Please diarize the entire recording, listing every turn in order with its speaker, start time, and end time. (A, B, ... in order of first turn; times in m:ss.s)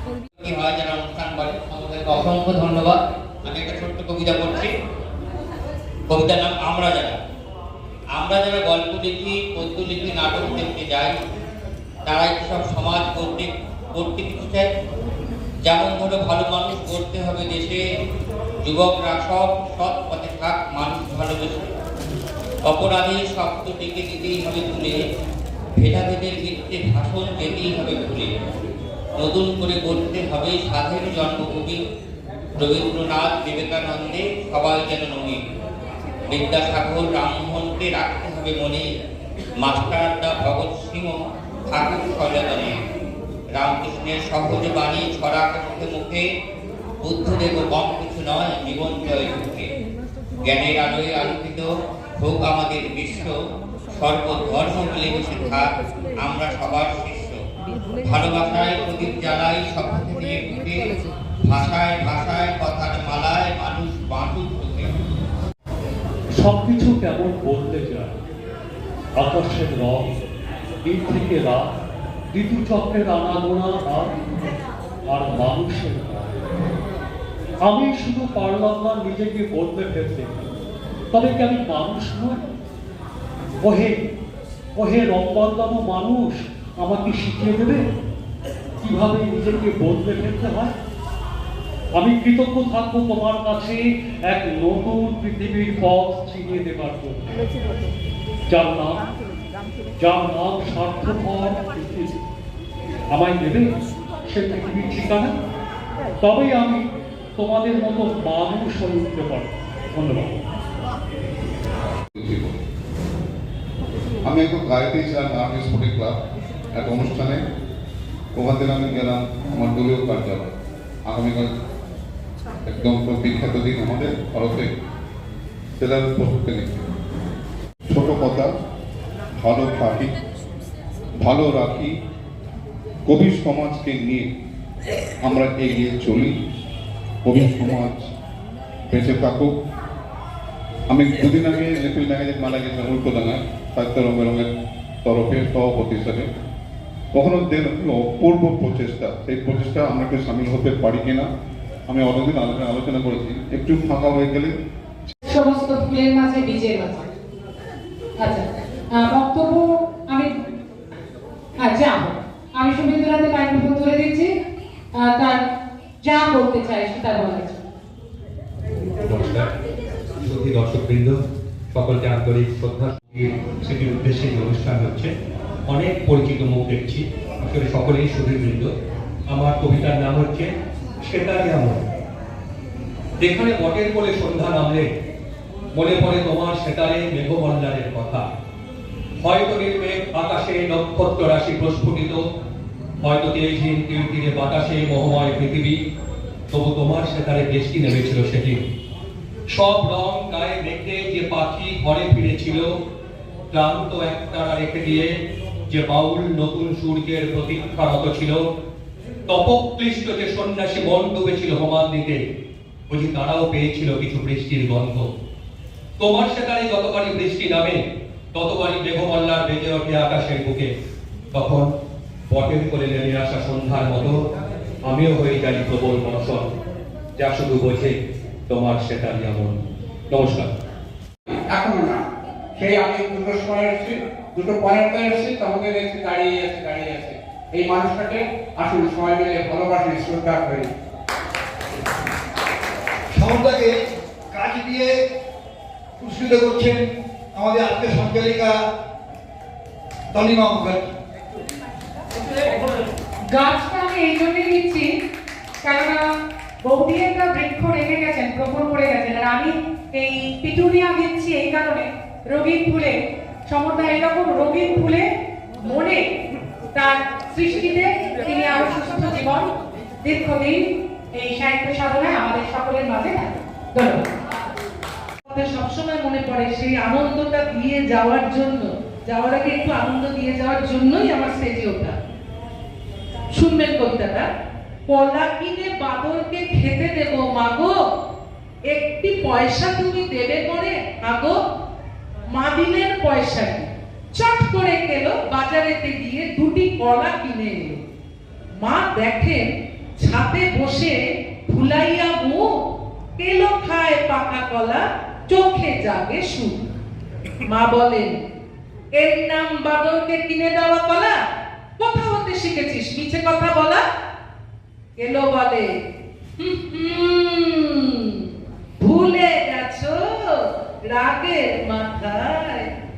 0:00.4-0:04.7 A
0:06.1-0:07.2 A
0:08.2-0:11.1 A
0:12.1-0:14.7 A
0:15.7-0:17.8 A
0:18.6-0:21.7 A
0:22.7-0:25.0 A
0:25.8-0:28.3 A
0:29.2-0:31.8 A
0:32.6-0:35.4 A
0:36.3-0:38.9 A
0:39.6-0:42.8 A
0:43.6-0:46.2 A
0:47.0-0:49.7 A
0:50.4-0:51.7 A
0:52.2-0:53.3 A
0:54.0-0:55.7 A
0:56.2-0:57.4 A
0:58.0-1:00.9 A
1:01.5-1:04.9 A
1:06.4-1:08.1 B
1:09.2-1:10.1 B
1:10.8-1:11.6 B
1:12.3-1:14.1 B
1:15.1-1:16.2 B
1:17.7-1:20.3 B
1:21.1-1:22.4 B
1:23.7-1:23.9 B
1:24.8-1:27.8 B
1:28.8-1:30.7 B
1:32.0-1:33.8 B
1:34.3-1:37.3 B
1:38.5-1:39.0 B
1:40.0-1:42.1 B
1:43.1-1:43.6 B
1:44.3-1:45.3 B
1:46.2-1:46.8 B
1:47.4-1:50.4 B
1:52.2-1:52.5 C
1:54.2-1:56.2 C
1:56.7-1:57.4 C
1:58.4-2:00.6 C
2:01.1-2:01.5 C
2:02.6-2:04.7 C
2:05.8-2:06.8 C
2:07.9-2:08.5 C
2:09.4-2:10.1 C
2:11.2-2:12.0 C
2:13.1-2:14.3 C
2:15.2-2:16.4 C
2:17.2-2:18.1 C
2:18.9-2:19.5 C
2:20.9-2:24.5 C
2:25.0-2:26.3 C
2:27.1-2:31.3 C
2:31.9-2:34.5 C
2:35.3-2:37.1 D
2:38.2-2:40.3 D
2:41.6-2:44.3 D
2:45.0-2:45.4 D
2:46.0-2:47.6 D
2:49.0-2:49.5 E
2:50.2-2:51.2 E
2:51.7-2:55.1 E
2:55.7-2:58.7 E
2:59.3-3:00.5 E
3:01.0-3:01.8 E
3:03.2-3:04.9 E
3:05.7-3:08.3 E
3:09.2-3:12.2 E
3:13.0-3:15.8 E
3:16.5-3:18.7 E
3:19.5-3:22.7 E
3:23.5-3:25.1 E
3:25.7-3:28.4 E
3:29.3-3:32.2 E
3:32.9-3:35.1 E
3:36.0-3:37.8 E
3:38.3-3:40.7 E
3:41.3-3:41.7 E
3:42.3-3:44.2 E
3:44.9-3:46.5 E
3:47.2-3:48.0 E
3:48.5-3:49.6 E
3:50.1-3:50.5 E
3:51.6-3:51.9 B
3:51.6-3:51.9 F
3:52.6-3:57.0 B
3:52.6-4:00.6 F
3:57.6-4:00.6 B
4:03.1-4:03.8 G
4:04.3-4:05.0 G
4:06.0-4:06.8 G
4:07.4-4:08.6 G
4:10.1-4:10.9 G
4:13.3-4:14.9 D
4:15.6-4:16.0 D
4:16.6-4:25.1 D
4:25.6-4:26.0 D
4:26.7-4:29.5 D
4:30.0-4:30.6 D
4:31.2-4:34.1 D
4:35.3-4:42.0 H
4:43.3-4:44.2 H
4:44.9-4:47.8 H
4:48.7-4:51.4 H
4:52.3-4:57.8 H
4:58.6-4:59.5 H
5:00.0-5:01.0 H
5:01.5-5:02.4 H
5:03.2-5:06.6 H
5:07.5-5:08.1 H
5:09.0-5:11.2 H
5:11.8-5:13.8 H
5:15.0-5:15.7 H
5:16.4-5:18.3 H
5:18.8-5:19.9 H
5:20.9-5:22.7 H